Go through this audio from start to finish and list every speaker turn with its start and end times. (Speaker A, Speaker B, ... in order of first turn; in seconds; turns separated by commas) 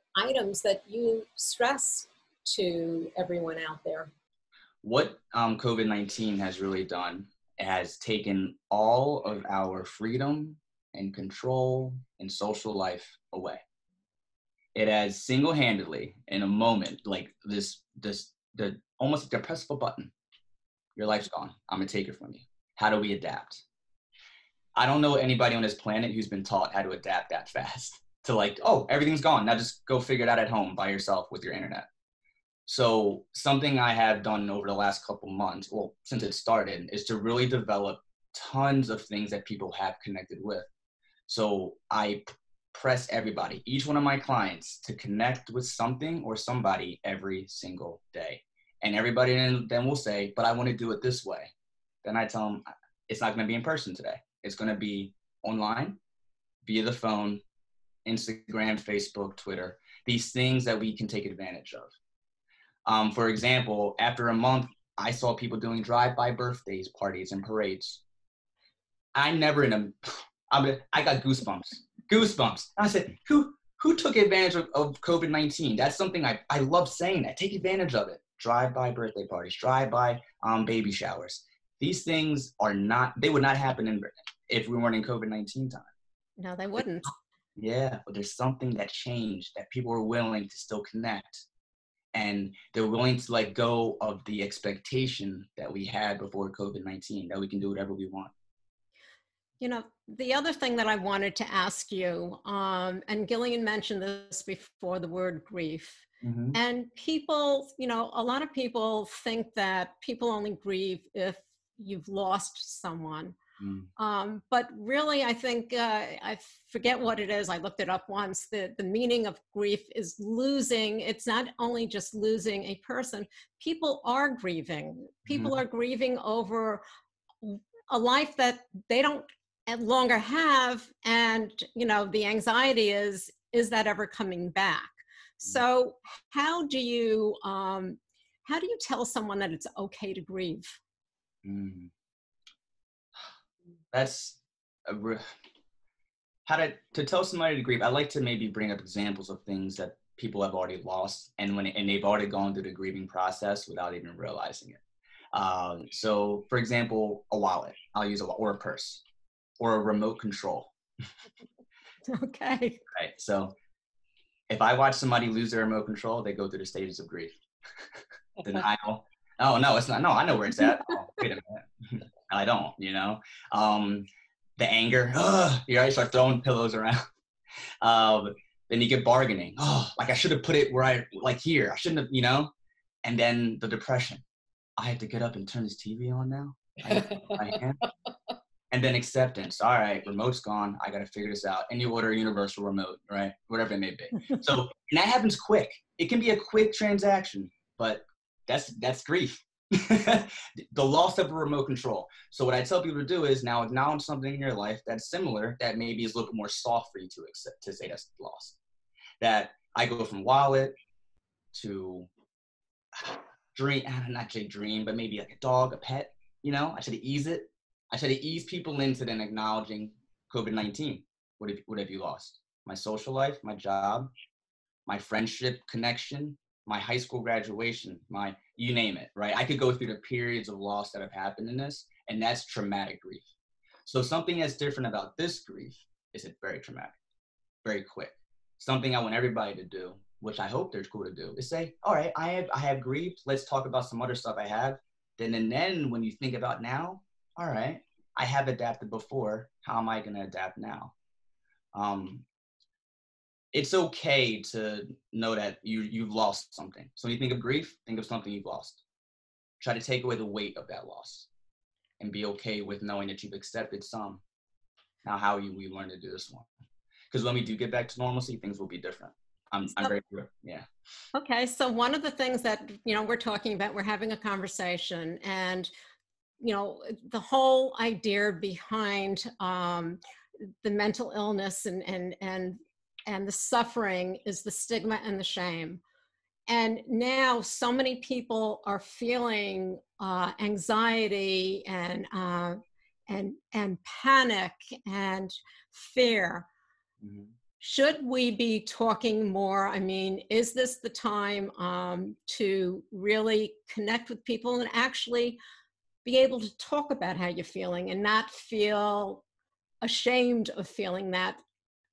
Speaker A: 0.1-4.1, Speaker B: 4.8-13.6, Speaker B: 14.7-20.1, Speaker B: 20.9-23.6, Speaker B: 24.8-31.9, Speaker B: 32.6-40.7, Speaker B: 41.3-51.5, Speaker B: 52.0-56.0, Speaker B: 56.6-57.4, Speaker B: 58.0-61.9, Speaker B: 62.9-68.0, Speaker B: 69.1-85.9, Speaker A: 86.4-87.1, Speaker B: 87.5-91.4, Speaker B: 92.1-98.3, Speaker A: 99.6-113.3, Speaker B: 106.2-106.5, Speaker B: 113.6-113.9, Speaker A: 114.0-126.8, Speaker B: 125.3-125.5, Speaker A: 127.4-140.8, Speaker B: 141.4-141.9, Speaker B: 143.9-145.3, Speaker B: 146.4-154.8, Speaker B: 155.3-159.0, Speaker B: 159.6-160.7, Speaker A: 162.1-162.8, Speaker B: 162.9-163.5, Speaker B: 164.5-167.3, Speaker B: 168.4-174.1, Speaker B: 174.6-177.0, Speaker B: 177.8-182.5, Speaker B: 183.0-184.2, Speaker B: 184.8-187.8, Speaker B: 188.7-208.6, Speaker B: 209.2-210.7, Speaker B: 211.5-212.1, Speaker B: 212.9-224.1, Speaker B: 224.8-233.3, Speaker B: 233.8-236.9, Speaker B: 237.6-250.9, Speaker B: 251.7-252.2, Speaker B: 253.5-258.8, Speaker B: 259.6-261.3, Speaker B: 262.0-264.2, Speaker B: 265.0-266.5, Speaker B: 267.1-270.6, Speaker A: 271.1-275.7, Speaker A: 276.4-280.0, Speaker A: 280.6-285.8, Speaker A: 286.5-296.5, Speaker B: 297.0-297.3, Speaker A: 297.6-305.4, Speaker A: 306.0-309.2, Speaker A: 309.8-311.4